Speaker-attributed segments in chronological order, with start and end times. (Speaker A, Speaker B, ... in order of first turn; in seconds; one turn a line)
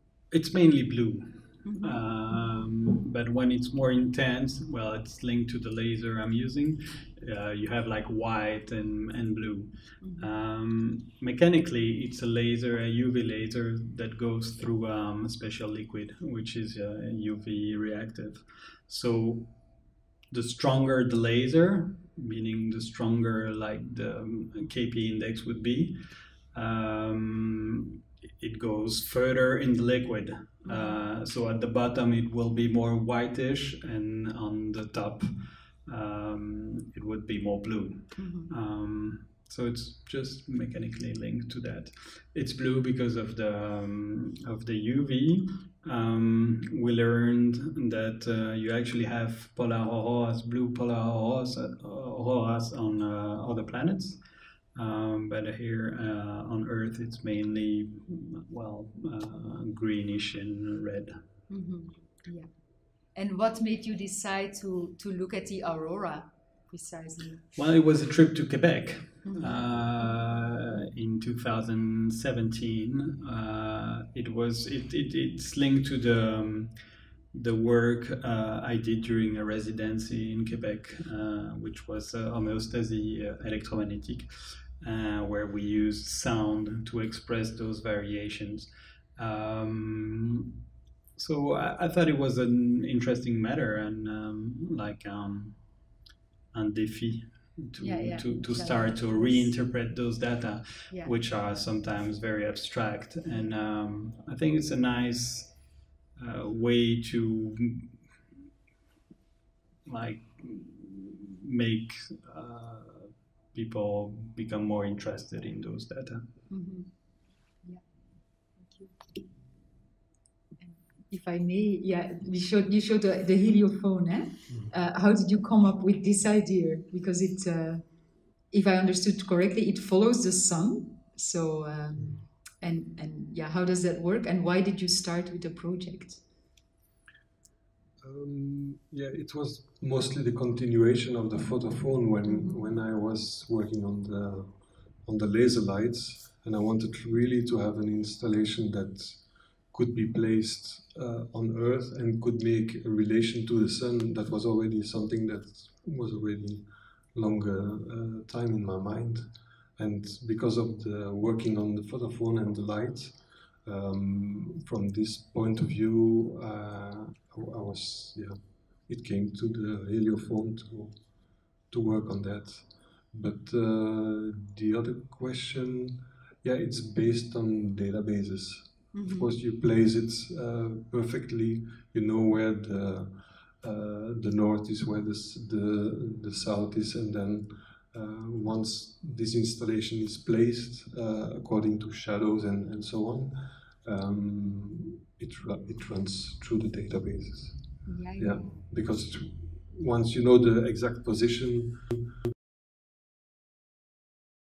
Speaker A: 0.3-19.5
Speaker B: 1.6-2.0
Speaker B: 10.0-10.3
Speaker A: 20.3-26.0
Speaker A: 26.5-54.2
Speaker B: 30.6-31.0
Speaker B: 38.1-38.5
Speaker A: 54.8-61.2
Speaker B: 61.5-62.5
Speaker B: 63.1-67.5
Speaker A: 67.6-76.7
Speaker B: 69.2-69.6
Speaker A: 77.3-84.3
Speaker A: 84.8-90.5
Speaker A: 91.2-95.6
Speaker A: 96.5-105.6
Speaker B: 97.8-99.5
Speaker A: 106.2-108.2
Speaker A: 109.9-116.3
Speaker B: 116.5-116.9
Speaker B: 118.6-119.0
Speaker B: 120.6-127.8
Speaker B: 128.5-136.2
Speaker C: 132.0-132.2
Speaker C: 138.0-202.2
Speaker B: 142.3-142.6
Speaker B: 178.9-179.3
Speaker B: 197.9-198.5